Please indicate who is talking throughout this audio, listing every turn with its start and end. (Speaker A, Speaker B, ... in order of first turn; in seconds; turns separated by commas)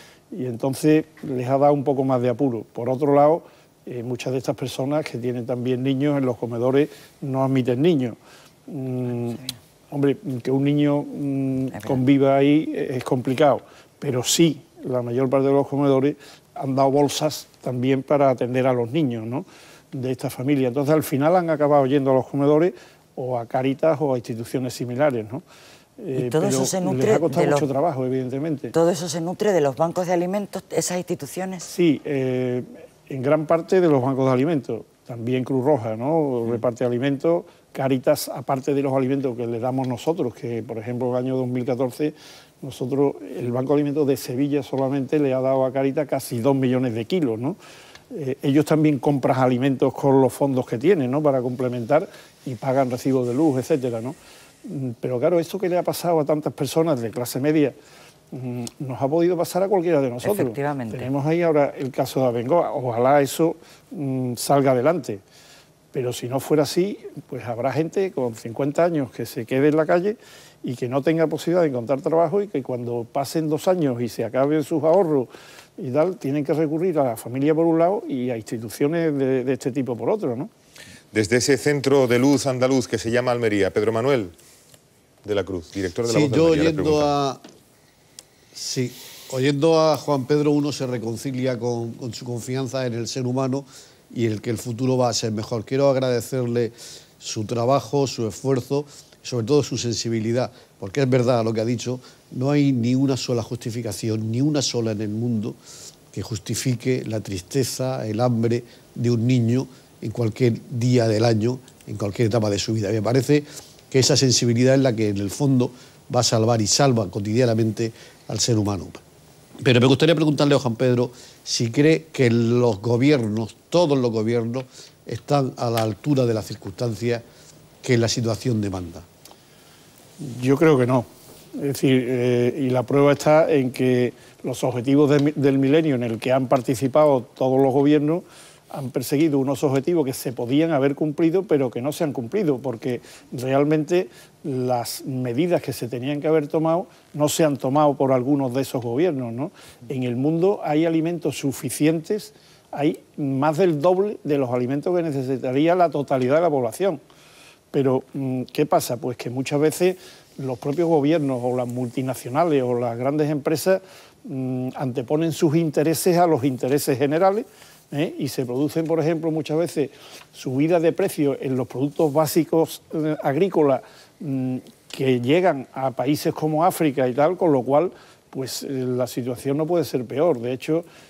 Speaker A: 0.3-25.4, Speaker B: 11.7-12.0, Speaker A: 26.0-28.7, Speaker B: 26.1-27.7, Speaker B: 28.7-31.7, Speaker A: 31.7-47.6, Speaker A: 48.1-57.8, Speaker A: 58.3-65.2, Speaker B: 60.2-61.1, Speaker A: 65.9-80.5, Speaker C: 81.1-84.3, Speaker C: 85.2-87.2, Speaker D: 86.1-87.4, Speaker D: 88.5-105.6, Speaker D: 106.1-119.0, Speaker D: 119.6-127.2, Speaker D: 127.8-129.1, Speaker A: 130.2-157.0, Speaker A: 157.7-180.8